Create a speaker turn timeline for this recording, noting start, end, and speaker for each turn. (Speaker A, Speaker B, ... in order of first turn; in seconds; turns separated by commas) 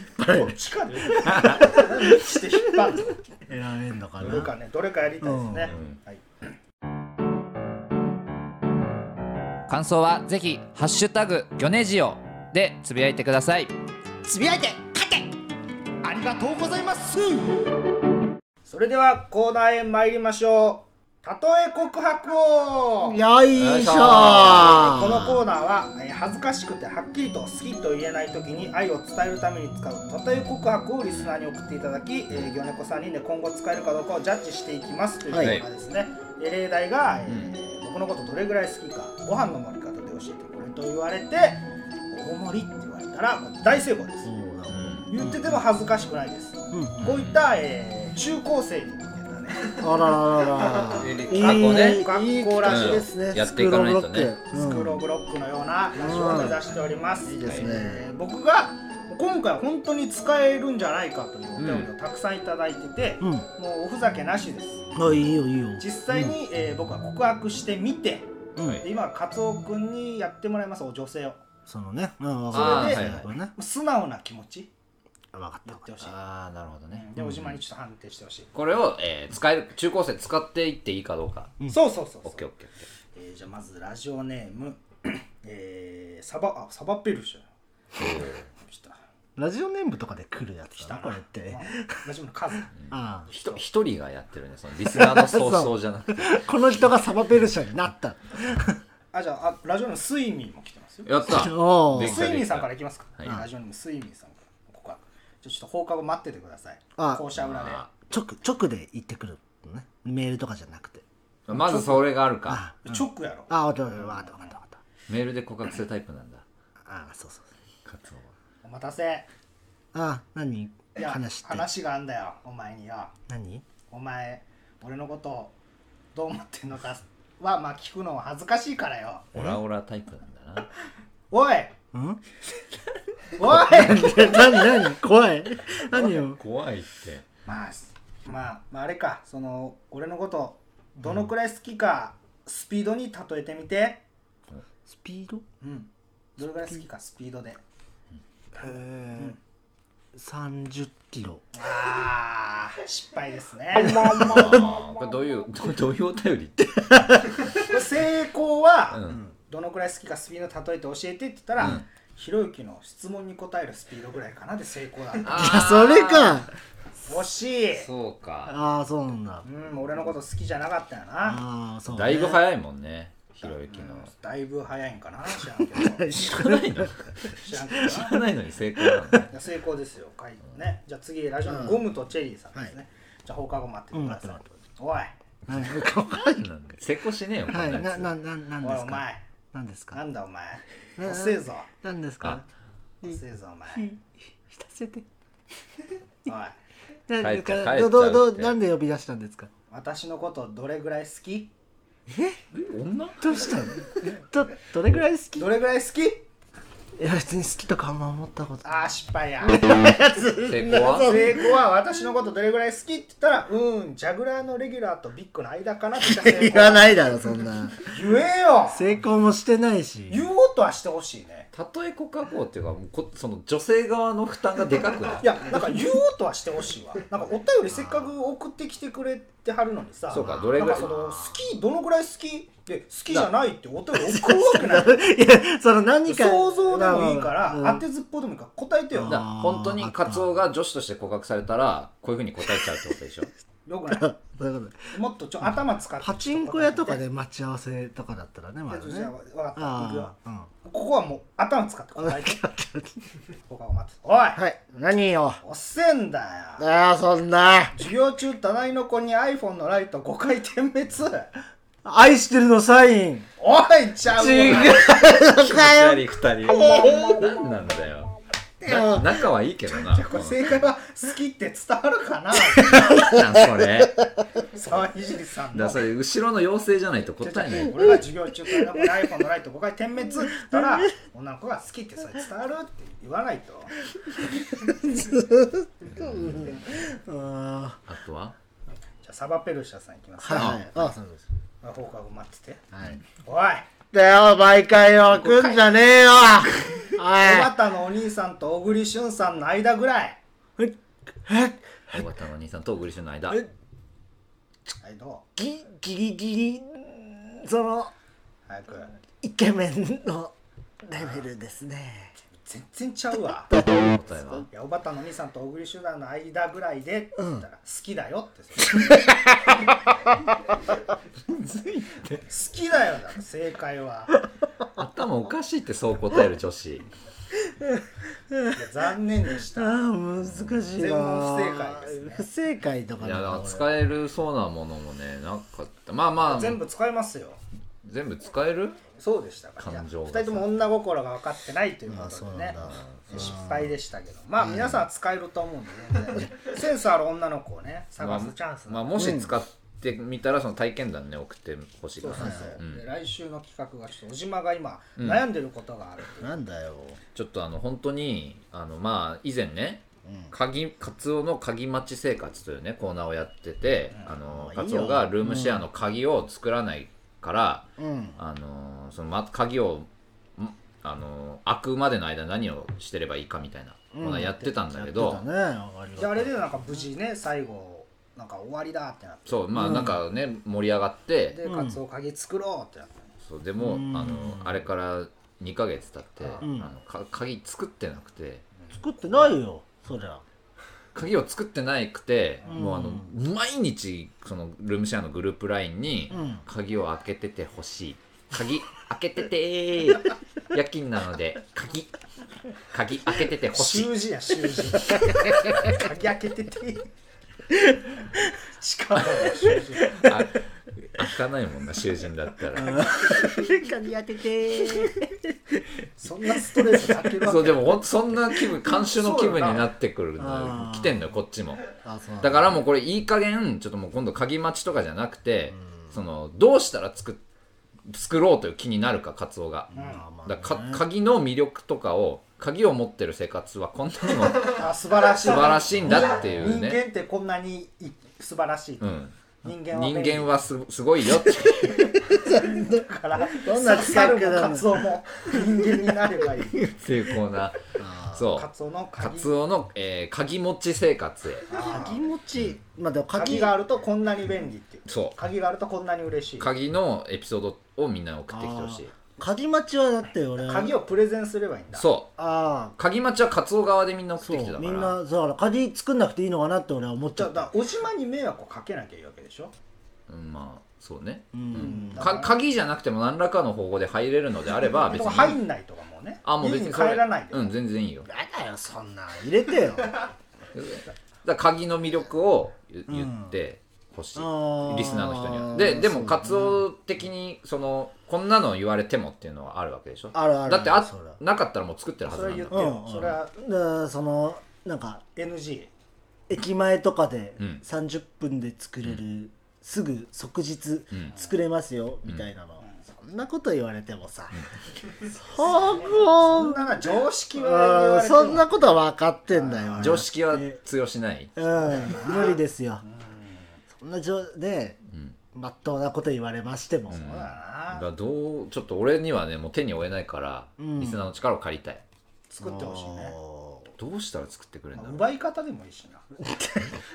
Speaker A: 0.2-2.2, Speaker B: 0.3-3.2, Speaker C: 1.2-1.9, Speaker A: 3.5-4.5, Speaker B: 4.2-6.2, Speaker A: 5.2-5.7, Speaker C: 5.7-6.0, Speaker C: 9.7-13.7, Speaker B: 14.3-15.2, Speaker B: 16.0-17.7, Speaker B: 18.7-23.2, Speaker A: 23.1-25.4, Speaker C: 23.5-25.0, Speaker B: 24.6-44.3, Speaker A: 35.3-35.6, Speaker C: 35.4-35.7, Speaker C: 37.3-37.5, Speaker A: 44.2-45.6, Speaker C: 44.7-45.1, Speaker B: 45.1-49.9, Speaker A: 46.7-47.0, Speaker C: 47.0-47.5, Speaker A: 49.8-55.0, Speaker B: 50.4-53.1, Speaker C: 50.9-52.1, Speaker C: 52.6-54.4, Speaker B: 54.5-64.9, Speaker A: 56.0-56.6, Speaker A: 57.2-58.1, Speaker C: 57.4-57.7, Speaker C: 61.6-61.9, Speaker A: 63.2-63.5, Speaker A: 65.0-66.3, Speaker B: 65.8-71.4, Speaker A: 68.6-68.8, Speaker C: 68.6-68.8, Speaker A: 71.7-73.5, Speaker B: 72.5-74.7, Speaker C: 72.5-73.3, Speaker A: 75.3-76.1, Speaker B: 75.7-76.2, Speaker C: 76.0-77.5, Speaker B: 76.9-78.5, Speaker C: 78.5-81.6, Speaker B: 81.7-82.5, Speaker C: 82.2-82.9, Speaker B: 83.1-87.5, Speaker C: 88.0-88.5, Speaker B: 88.5-89.0, Speaker A: 89.4-92.1, Speaker B: 90.8-92.7, Speaker C: 92.8-96.4, Speaker A: 92.9-93.3, Speaker B: 93.3-93.6, Speaker A: 94.9-98.8, Speaker B: 99.1-101.1, Speaker C: 101.1-103.4, Speaker A: 101.3-102.3, Speaker B: 102.0-107.8, Speaker A: 107.0-107.3, Speaker C: 107.3-107.9, Speaker A: 108.1-114.8, Speaker C: 111.5-112.7, Speaker B: 112.8-114.5, Speaker C: 115.1-116.4, Speaker A: 116.8-117.5, Speaker C: 117.8-118.3, Speaker B: 118.6-119.3, Speaker A: 119.9-121.7, Speaker B: 121.0-123.1, Speaker A: 123.3-123.7, Speaker B: 123.9-125.5, Speaker B: 126.1-129.3, Speaker C: 129.3-130.7, Speaker B: 131.3-131.8, Speaker A: 131.9-132.2, Speaker B: 133.4-134.9, Speaker A: 133.4-136.4, Speaker C: 135.9-137.3, Speaker B: 137.5-144.0, Speaker A: 144.9-145.4, Speaker B: 145.6-147.6, Speaker A: 148.6-149.4, Speaker B: 148.6-149.4, Speaker A: 150.1-151.4, Speaker B: 151.6-154.7, Speaker A: 153.8-154.7, Speaker C: 153.9-157.2, Speaker B: 157.6-165.6, Speaker C: 158.9-159.2, Speaker C: 161.6-161.8, Speaker C: 165.2-166.5, Speaker A: 165.3-166.5, Speaker B: 167.1-167.9, Speaker C: 167.7-168.6, Speaker A: 168.5-169.4, Speaker B: 169.4-171.4, Speaker A: 171.2-172.4, Speaker C: 171.9-174.1, Speaker B: 173.4-176.1, Speaker A: 175.7-177.2, Speaker C: 176.1-179.3, Speaker B: 177.3-178.2, Speaker A: 178.8-179.2, Speaker B: 179.3-185.1, Speaker A: 181.5-181.9, Speaker A: 183.9-184.6, Speaker A: 185.5-186.5, Speaker C: 186.2-188.1, Speaker A: 187.5-190.0, Speaker B: 188.6-189.3, Speaker B: 189.9-191.7, Speaker A: 191.0-192.4, Speaker B: 193.0-193.9, Speaker A: 193.7-195.1, Speaker B: 196.3-196.6, Speaker A: 197.1-199.5, Speaker C: 197.2-198.6, Speaker B: 199.7-201.5, Speaker A: 202.1-202.4, Speaker C: 202.5-203.3, Speaker A: 203.2-205.5, Speaker B: 205.4-206.3, Speaker A: 207.0-208.7, Speaker B: 208.6-209.8, Speaker A: 209.4-211.5, Speaker C: 210.4-211.3, Speaker B: 210.9-217.2, Speaker A: 216.0-217.9, Speaker B: 217.8-218.9, Speaker A: 218.7-220.2, Speaker B: 220.1-221.5, Speaker C: 221.5-225.4, Speaker B: 225.2-235.1, Speaker C: 230.1-230.9, Speaker A: 230.1-231.3, Speaker A: 233.9-237.8, Speaker B: 236.1-239.2, Speaker A: 238.9-240.4, Speaker C: 239.0-243.3, Speaker A: 242.6-242.8, Speaker B: 243.7-244.2, Speaker A: 243.9-244.9, Speaker B: 244.9-247.0, Speaker A: 246.0-250.5, Speaker B: 248.7-252.4, Speaker A: 252.0-253.0, Speaker B: 253.5-254.4, Speaker A: 254.4-255.4, Speaker B: 255.4-256.7, Speaker A: 256.6-257.8, Speaker B: 257.7-261.3, Speaker A: 261.9-263.3, Speaker B: 263.4-264.9, Speaker A: 264.2-267.1, Speaker C: 264.2-268.1, Speaker A: 268.6-269.1, Speaker C: 268.6-270.7, Speaker B: 269.7-273.1, Speaker A: 272.6-273.5, Speaker C: 272.6-274.0, Speaker B: 274.5-275.8, Speaker C: 275.5-278.0, Speaker B: 277.2-283.8, Speaker A: 280.3-280.9, Speaker A: 284.6-287.8, Speaker C: 285.9-286.5, Speaker B: 286.3-286.6, Speaker C: 287.9-288.4, Speaker B: 289.0-290.9, Speaker A: 290.2-291.3, Speaker C: 290.3-290.6, Speaker B: 291.6-293.7, Speaker A: 292.7-293.0, Speaker A: 293.9-297.6, Speaker B: 295.1-296.0, Speaker B: 296.8-300.2, Speaker A: 300.6-302.1, Speaker C: 301.9-303.4, Speaker B: 304.8-305.3, Speaker A: 305.4-307.9, Speaker B: 308.5-308.9, Speaker A: 309.2-312.1, Speaker B: 310.9-311.2, Speaker B: 312.4-313.5, Speaker A: 313.5-314.4, Speaker C: 313.6-314.5, Speaker B: 314.5-319.0, Speaker A: 318.7-319.6, Speaker C: 321.3-322.2, Speaker B: 322.2-324.2, Speaker C: 324.8-326.9, Speaker A: 327.4-328.7, Speaker B: 328.6-329.9, Speaker A: 329.4-333.7, Speaker C: 330.3-330.7, Speaker B: 330.7-332.3, Speaker C: 333.0-336.6, Speaker B: 336.2-337.4, Speaker C: 337.8-338.8, Speaker B: 338.9-349.0, Speaker C: 339.6-340.5, Speaker A: 341.9-343.7, Speaker C: 342.6-343.3, Speaker C: 344.4-344.8, Speaker C: 348.0-352.8, Speaker A: 348.9-349.3, Speaker B: 352.0-356.4, Speaker A: 352.1-352.6, Speaker C: 355.0-355.2, Speaker A: 356.2-357.0, Speaker C: 357.1-375.2, Speaker A: 360.1-360.3, Speaker A: 364.2-365.6, Speaker A: 367.8-368.2, Speaker A: 373.9-376.4, Speaker B: 376.0-379.5, Speaker C: 379.3-381.4, Speaker A: 379.5-380.0, Speaker B: 381.3-383.1, Speaker A: 381.4-381.8, Speaker C: 383.2-388.5, Speaker A: 383.6-384.6, Speaker B: 386.2-386.5, Speaker A: 386.4-386.7, Speaker B: 388.6-389.4, Speaker A: 388.7-390.2, Speaker C: 390.9-401.9, Speaker A: 392.5-393.1, Speaker A: 396.1-396.4, Speaker C: 402.7-403.9, Speaker B: 403.5-406.9, Speaker A: 407.5-407.9, Speaker B: 408.4-410.1, Speaker C: 409.0-413.4, Speaker A: 412.6-415.4, Speaker B: 416.0-417.8, Speaker A: 416.5-416.9, Speaker C: 417.2-421.7, Speaker B: 418.7-419.7, Speaker A: 420.2-421.0, Speaker A: 421.8-422.6, Speaker C: 422.2-427.2, Speaker A: 425.7-425.9, Speaker C: 427.9-429.7, Speaker B: 429.7-430.0, Speaker A: 429.7-430.8, Speaker C: 430.2-436.8, Speaker B: 434.4-440.3, Speaker C: 438.8-442.2, Speaker A: 442.1-444.8, Speaker B: 442.3-446.6, Speaker C: 446.5-451.5, Speaker A: 447.8-448.3, Speaker B: 448.3-449.4, Speaker B: 451.5-452.1, Speaker A: 451.5-453.5, Speaker B: 453.1-456.5, Speaker C: 454.9-455.2, Speaker C: 456.4-458.9, Speaker A: 458.3-460.8, Speaker B: 460.4-461.9, Speaker C: 461.8-462.1, Speaker A: 462.2-462.8, Speaker C: 462.8-465.0, Speaker A: 464.2-467.5, Speaker B: 467.1-469.5, Speaker C: 470.1-475.4, Speaker A: 471.3-472.1, Speaker B: 471.5-472.4, Speaker B: 474.6-477.5, Speaker C: 476.2-478.1, Speaker A: 478.1-480.0, Speaker C: 480.5-492.7, Speaker A: 482.9-483.4, Speaker A: 484.2-486.6, Speaker A: 490.1-491.2, Speaker B: 492.1-493.3, Speaker A: 492.5-495.1, Speaker B: 495.2-495.7, Speaker A: 496.3-504.5, Speaker A: 505.0-506.7, Speaker B: 505.4-508.5, Speaker A: 507.4-510.6, Speaker B: 509.3-510.1, Speaker C: 509.8-511.4, Speaker A: 511.4-512.8, Speaker B: 511.5-513.6, Speaker A: 513.7-514.8, Speaker C: 514.9-515.2, Speaker A: 515.3-517.0, Speaker B: 516.9-517.9, Speaker C: 516.9-521.8, Speaker A: 520.6-521.0, Speaker B: 522.3-523.2, Speaker A: 522.4-523.7, Speaker C: 523.8-525.0, Speaker B: 524.8-526.0, Speaker A: 526.2-526.8